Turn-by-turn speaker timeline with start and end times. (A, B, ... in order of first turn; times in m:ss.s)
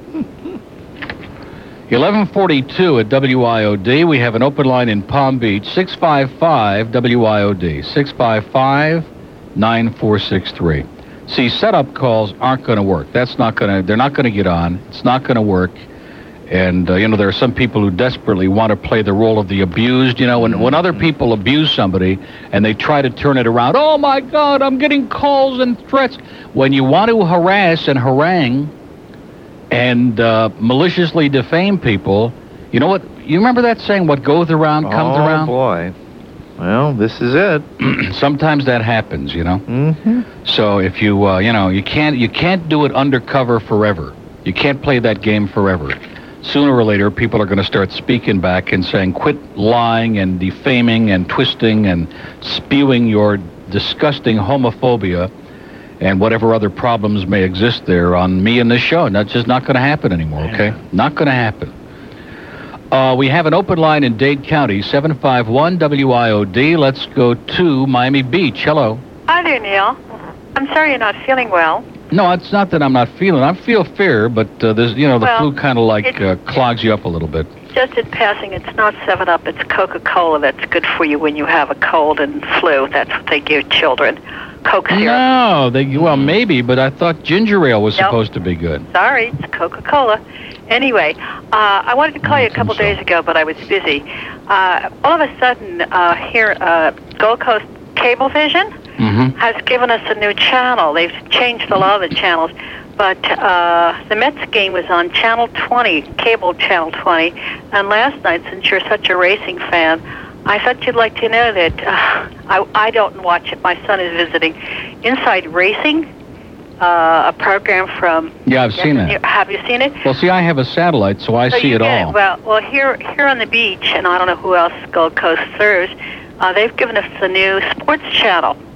0:01.9-0:15.8 A
0:16.5-0:28.7 A
0:20.4-0:21.0 B
0:29.7-0:35.5 A
0:34.8-0:35.9 B
0:36.6-0:37.7 B
0:37.8-0:39.6 A
0:39.7-0:40.3 B
0:40.4-0:55.3 A
0:56.0-1:01.7 A
1:02.9-1:09.0 A
1:09.3-1:10.0 C
1:10.6-1:11.8 C
1:12.1-1:17.5 A
1:15.2-1:15.5 C
1:17.7-1:25.2 C
1:24.9-1:28.9 A
1:26.0-1:26.3 B
1:28.9-1:38.7 C
1:32.2-1:33.0 A
1:39.0-1:39.3 A
1:39.4-1:56.1 C
1:56.8-2:00.0 C
1:58.5-1:59.2 A
2:00.0-2:02.2 A
2:01.5-2:08.6 C